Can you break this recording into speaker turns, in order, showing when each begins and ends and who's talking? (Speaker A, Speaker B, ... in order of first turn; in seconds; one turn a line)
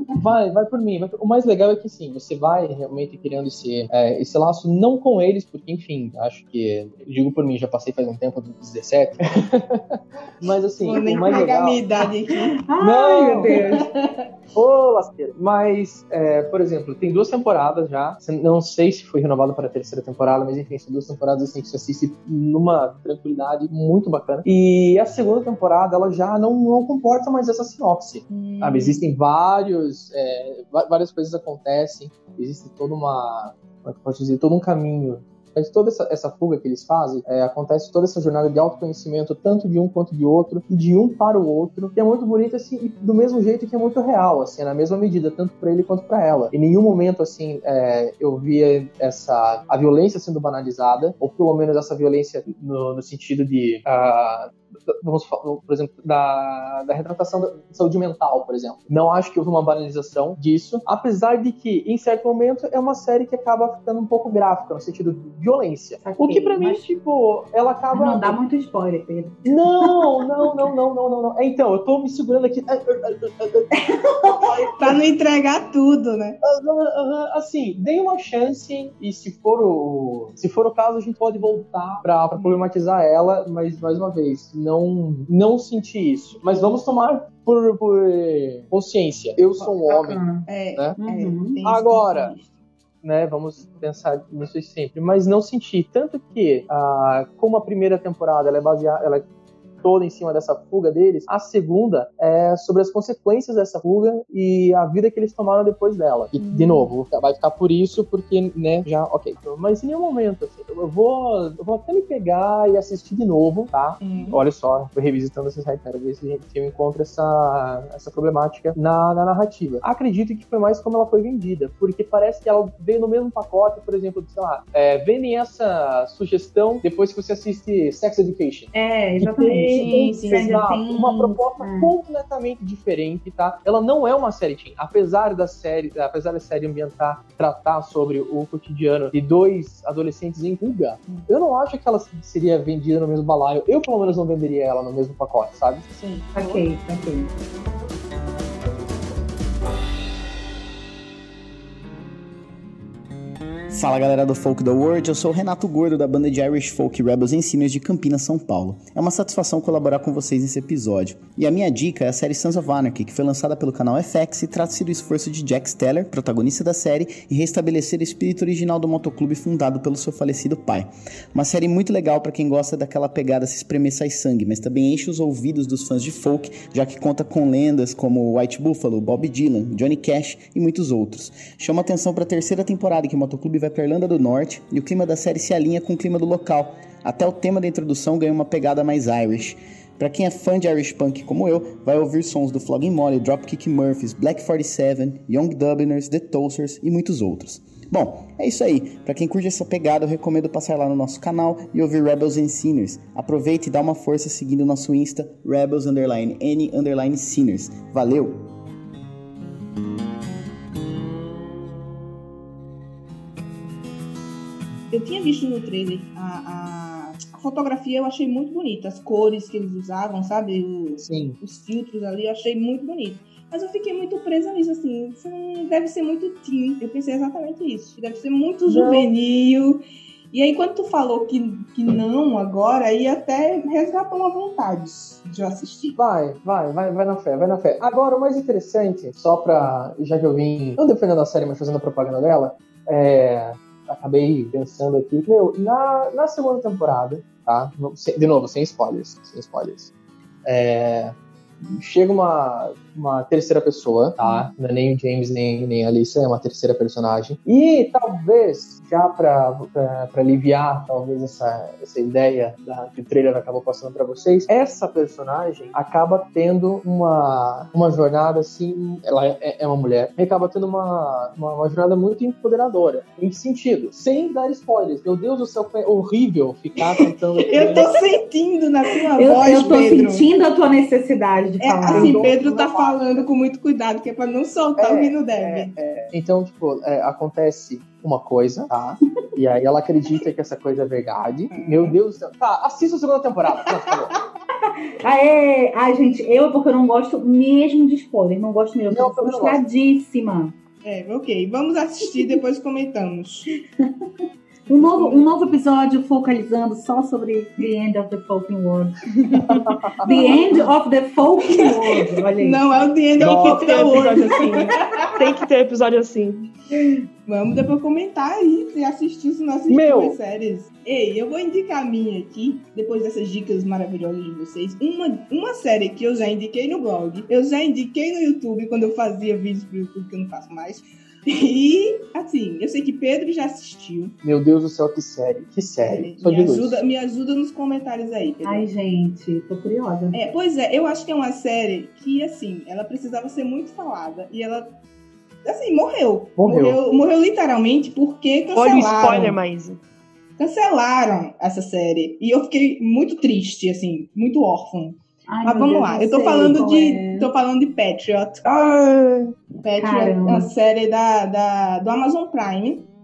Speaker A: 0.2-11.8
Speaker B: 10.8-12.6
Speaker C: 12.6-13.8
Speaker A: 12.8-13.7
Speaker B: 13.4-14.2
Speaker A: 14.5-68.4
Speaker B: 28.3-29.0
Speaker C: 66.0-66.9
Speaker C: 67.9-70.2
Speaker A: 69.4-73.8
Speaker C: 73.8-74.6
Speaker A: 74.5-74.8
Speaker B: 74.8-76.3
Speaker A: 76.4-90.2
Speaker B: 82.3-82.6
Speaker B: 89.6-92.5
Speaker C: 90.0-90.5
Speaker C: 91.0-91.6
Speaker A: 91.6-92.3
Speaker A: 93.0-99.3
Speaker A: 99.8-145.8
Speaker B: 106.4-106.9
Speaker B: 114.0-114.4
Speaker C: 128.7-131.9
Speaker B: 129.7-130.6
Speaker B: 145.9-146.7
Speaker C: 146.3-147.3
Speaker D: 153.7-208.4
Speaker B: 214.9-235.9
Speaker A: 221.0-221.4
Speaker A: 228.7-229.1
Speaker A: 235.9-249.9
Speaker A: 250.4-277.9
Speaker B: 277.5-280.2
Speaker C: 279.1-282.2
Speaker B: 281.6-285.7
Speaker A: 281.9-283.3
Speaker A: 284.8-294.1
Speaker B: 291.5-292.0
Speaker C: 295.0-300.6
Speaker A: 298.9-299.6
Speaker B: 300.8-303.5
Speaker C: 303.8-304.1
Speaker B: 304.7-305.2
Speaker C: 304.7-312.6
Speaker A: 309.5-309.9
Speaker B: 310.1-310.5
Speaker B: 311.6-315.1
Speaker A: 313.2-313.8
Speaker E: 313.2-316.5
Speaker C: 316.7-317.0
Speaker B: 317.2-334.1
Speaker A: 319.7-320.2
Speaker A: 334.2-336.8
Speaker B: 335.8-338.7
Speaker C: 338.4-340.2
Speaker B: 340.1-344.7
Speaker B: 345.4-349.4
Speaker A: 346.4-346.8
Speaker E: 348.5-349.8
Speaker B: 350.4-358.4
Speaker C: 355.3-357.3
Speaker A: 358.4-359.3
Speaker B: 359.6-362.9
Speaker C: 359.8-360.5